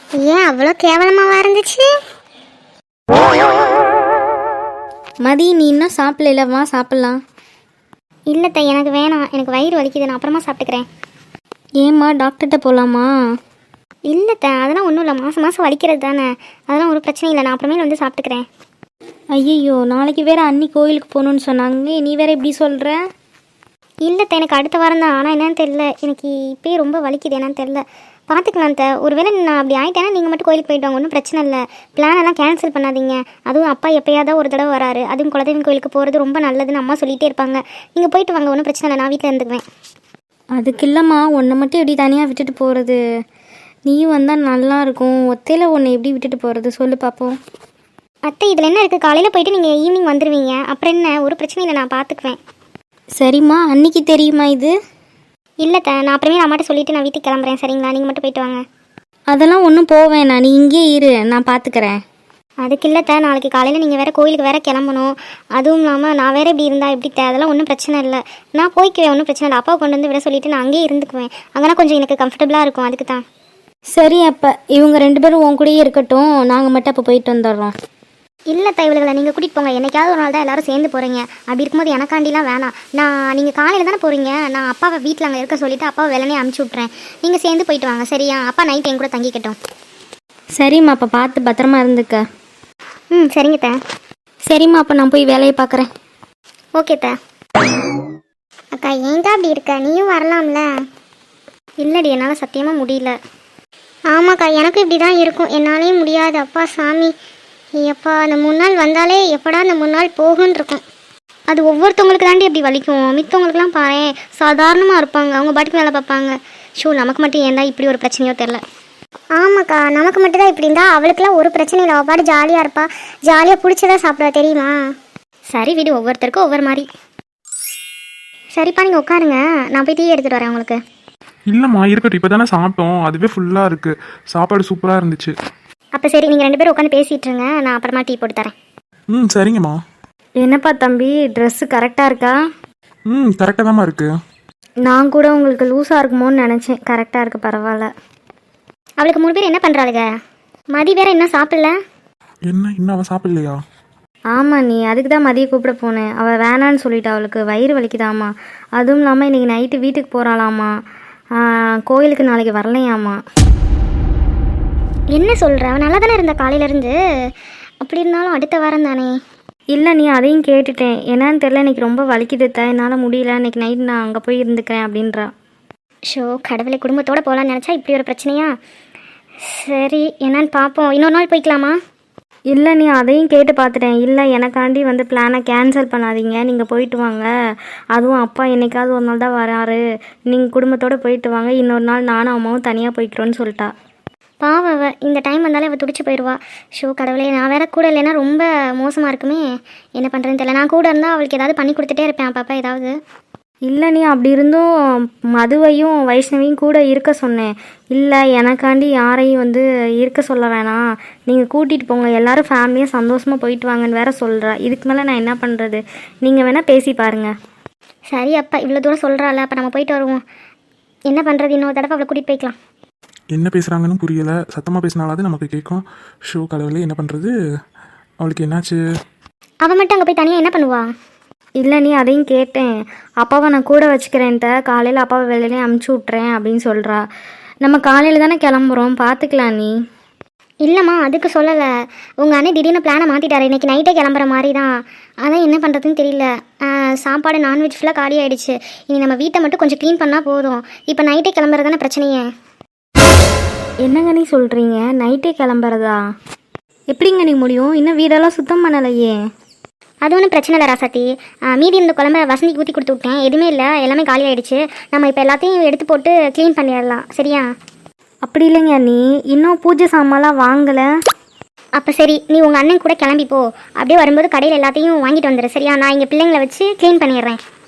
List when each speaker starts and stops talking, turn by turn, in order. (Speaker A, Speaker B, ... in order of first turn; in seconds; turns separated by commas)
Speaker A: 0.2-1.9, Speaker B: 5.2-7.2, Speaker A: 8.3-10.9, Speaker B: 11.8-13.1, Speaker A: 14.1-18.4, Speaker B: 19.4-22.9, Speaker A: 24.0-39.6, Speaker B: 40.5-43.0, Speaker B: 43.9-47.4, Speaker A: 48.2-52.4, Speaker B: 53.2-54.7, Speaker A: 55.6-58.6, Speaker B: 59.3-62.0, Speaker A: 62.6-73.2, Speaker B: 73.9-77.7, Speaker A: 78.5-89.5, Speaker B: 90.6-92.2, Speaker A: 93.1-93.8, Speaker B: 94.5-95.9, Speaker A: 96.8-97.1, Speaker A: 98.7-100.7, Speaker A: 101.8-103.2, Speaker A: 104.1-107.1, Speaker A: 107.8-110.8, Speaker A: 111.5-118.6, Speaker A: 119.4-124.8, Speaker A: 125.5-126.8, Speaker A: 128.6-130.8, Speaker C: 131.5-135.3, Speaker A: 135.9-138.5, Speaker C: 139.1-139.8, Speaker B: 140.4-142.4, Speaker C: 143.1-144.1, Speaker B: 144.9-147.9, Speaker A: 149.0-150.1, Speaker A: 150.7-151.7, Speaker C: 152.5-153.6, Speaker B: 154.3-160.7, Speaker B: 161.8-163.2, Speaker A: 165.1-167.0, Speaker A: 167.8-169.1, Speaker B: 169.7-175.3, Speaker A: 176.1-178.5, Speaker A: 179.5-181.8, Speaker B: 182.5-187.3, Speaker B: 187.9-193.7, Speaker A: 194.4-199.4, Speaker A: 200.0-202.9, Speaker B: 203.7-204.7, Speaker B: 205.4-217.3, Speaker A: 218.1-220.2, Speaker A: 221.1-222.5, Speaker C: 223.3-227.3, Speaker C: 228.2-228.8, Speaker A: 229.6-230.9, Speaker B: 231.6-237.0, Speaker B: 237.6-239.7, Speaker A: 240.6-252.2, Speaker B: 253.8-256.0, Speaker B: 256.9-259.1, Speaker A: 260.0-267.4, Speaker B: 268.2-270.9, Speaker A: 271.8-277.4